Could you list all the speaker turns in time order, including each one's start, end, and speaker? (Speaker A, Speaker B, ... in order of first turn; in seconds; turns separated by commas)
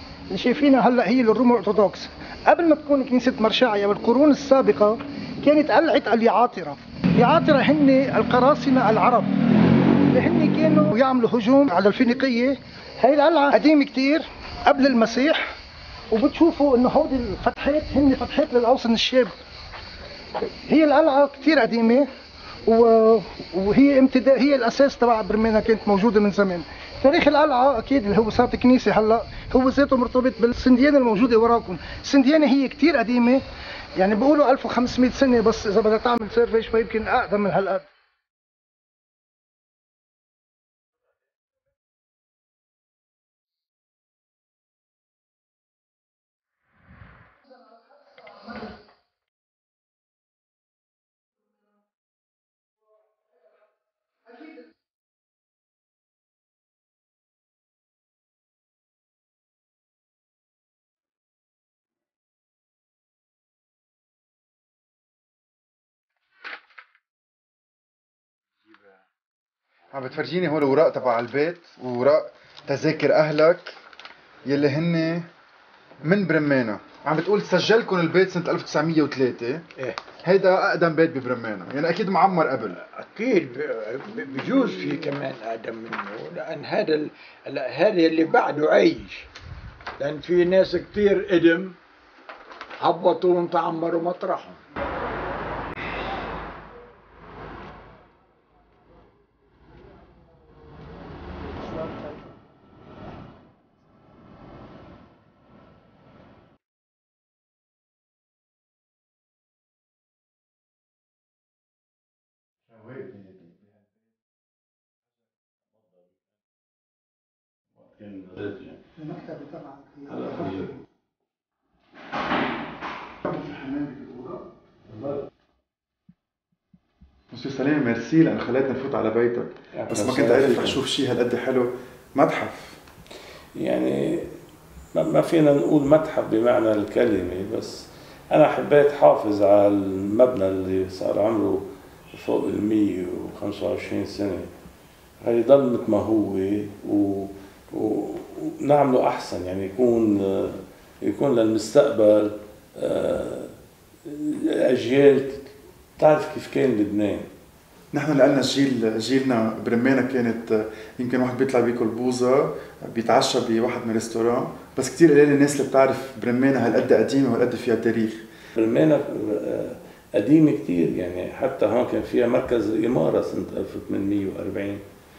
Speaker A: 0.3-9.3, Speaker A: 10.1-15.4, Speaker A: 16.1-19.3, Speaker A: 20.4-22.1, Speaker A: 22.7-33.4, Speaker A: 34.0-37.9, Speaker B: 69.9-73.8, Speaker B: 74.5-75.3, Speaker B: 76.0-79.6, Speaker B: 80.2-82.8, Speaker C: 82.7-89.2, Speaker C: 90.0-91.7, Speaker C: 92.8-94.5, Speaker D: 118.0-118.7, Speaker A: 119.0-120.7, Speaker D: 120.1-120.7, Speaker B: 123.3-124.4, Speaker B: 127.3-132.8, Speaker D: 129.8-130.8, Speaker D: 133.6-134.2, Speaker D: 134.9-144.5, Speaker D: 145.2-153.5, Speaker D: 154.1-157.3, Speaker B: 157.9-168.2, Speaker D: 168.6-174.8